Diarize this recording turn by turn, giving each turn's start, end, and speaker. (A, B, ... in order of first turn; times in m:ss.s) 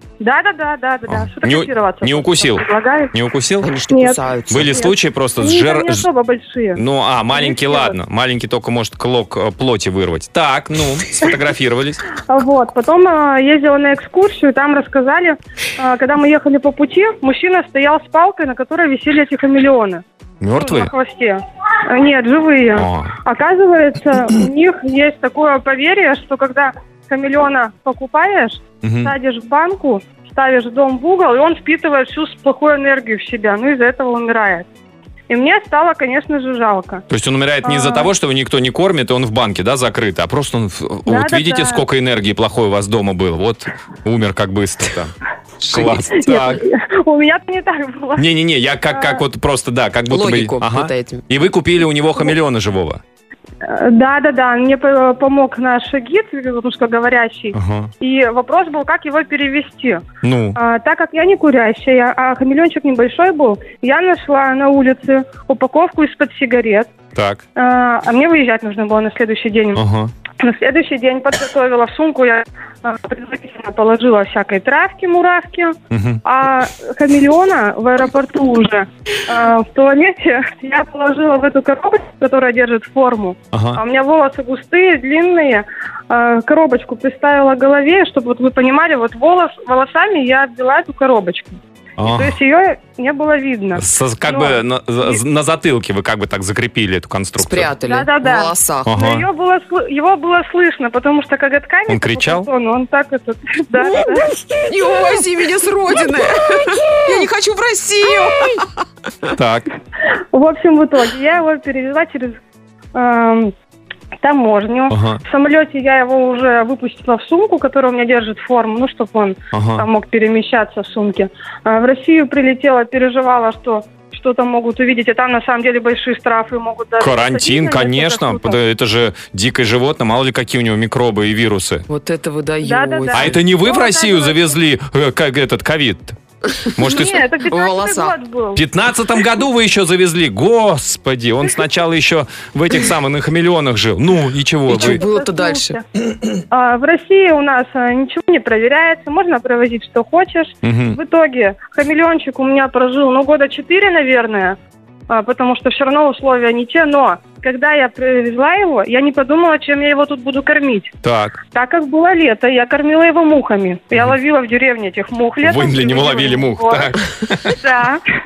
0:00.2-0:03.1 A
0:01.1-0:03.7 B
0:03.6-0:04.9 C
0:03.9-0:04.2 A
0:04.5-0:06.1 B
0:04.7-0:07.9 A
0:06.8-0:12.0 B
0:12.3-0:20.0 A
0:20.4-0:20.9 B
0:20.6-0:34.6 A
0:22.7-0:23.1 B
0:28.8-0:29.1 B
0:35.3-0:37.0 A
0:37.1-0:46.6 B
0:37.6-0:38.1 A
0:41.0-0:41.8 A
0:45.7-0:46.0 C
0:46.1-0:48.2 A
0:48.2-0:53.0 B
0:48.9-0:49.2 A
0:50.1-0:51.2 C
0:53.6-1:00.0 A
0:57.5-0:57.9 B
1:00.2-1:00.6 B
1:00.5-1:06.9 A
1:07.2-1:07.4 B
1:07.6-1:09.8 A
1:09.7-1:10.1 B
1:10.4-1:35.2 A
1:15.9-1:16.2 B
1:23.5-1:23.8 B
1:32.0-1:32.4 B
1:33.7-1:37.7 B
1:37.4-1:38.9 C
1:37.8-1:44.3 A
1:38.9-1:39.3 B
1:41.9-1:42.5 B
1:44.1-1:48.7 C
1:49.3-1:49.7 B
1:50.3-1:52.4 A
1:52.9-1:53.5 A
1:54.2-2:08.6 A
1:54.9-1:55.2 B
1:59.5-1:59.8 B
2:07.0-2:11.8 B
2:11.9-2:13.4 C
2:12.6-2:14.5 A
2:13.1-2:16.2 B
2:16.8-2:17.2 B
2:16.8-2:18.6 A
2:17.4-2:18.2 C
2:18.5-2:25.0 B
2:24.7-2:25.8 C
2:24.8-2:25.8 A
2:26.5-2:34.6 A
2:30.6-2:31.0 B
2:35.1-2:40.9 A
2:41.0-2:41.4 B
2:41.5-2:48.0 A
2:45.4-2:47.6 B